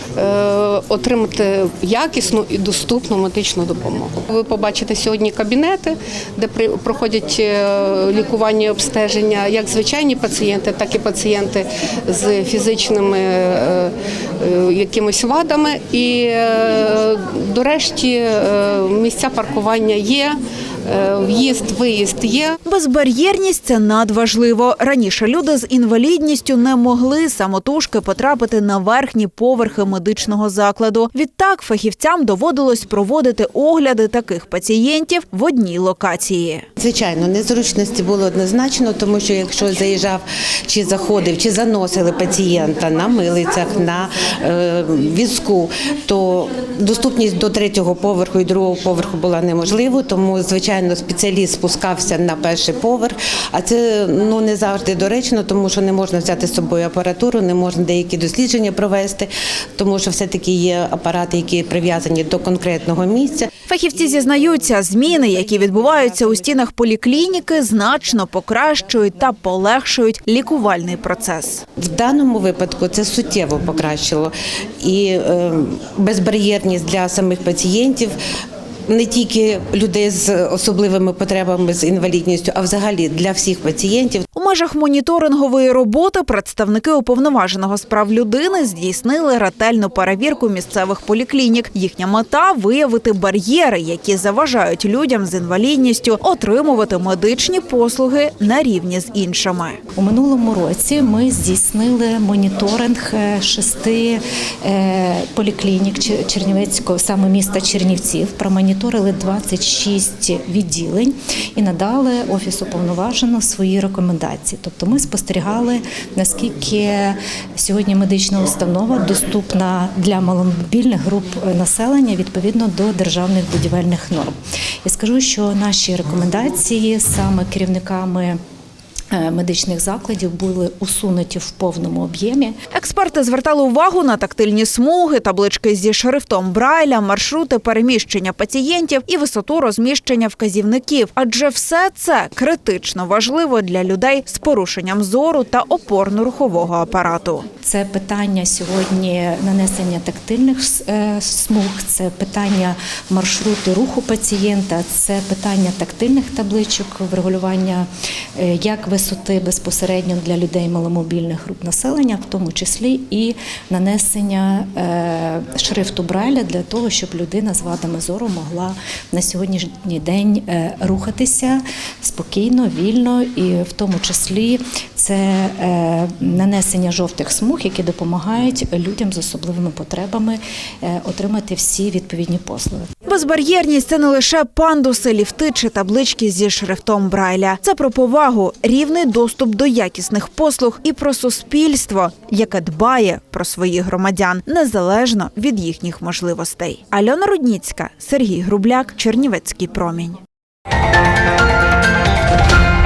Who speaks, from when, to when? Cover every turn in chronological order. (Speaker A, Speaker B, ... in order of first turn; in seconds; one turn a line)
Speaker A: 0.1-22.6
Speaker B: 22.6-36.7
Speaker C: 36.8-63.5
Speaker B: 63.6-71.6
Speaker C: 71.8-78.2
Speaker C: 78.9-84.2
Speaker B: 84.3-99.8
Speaker D: 100.0-128.4
Speaker D: 129.1-132.6
Speaker B: 132.7-147.5
Speaker D: 147.6-182.9
Speaker B: 183.1-200.2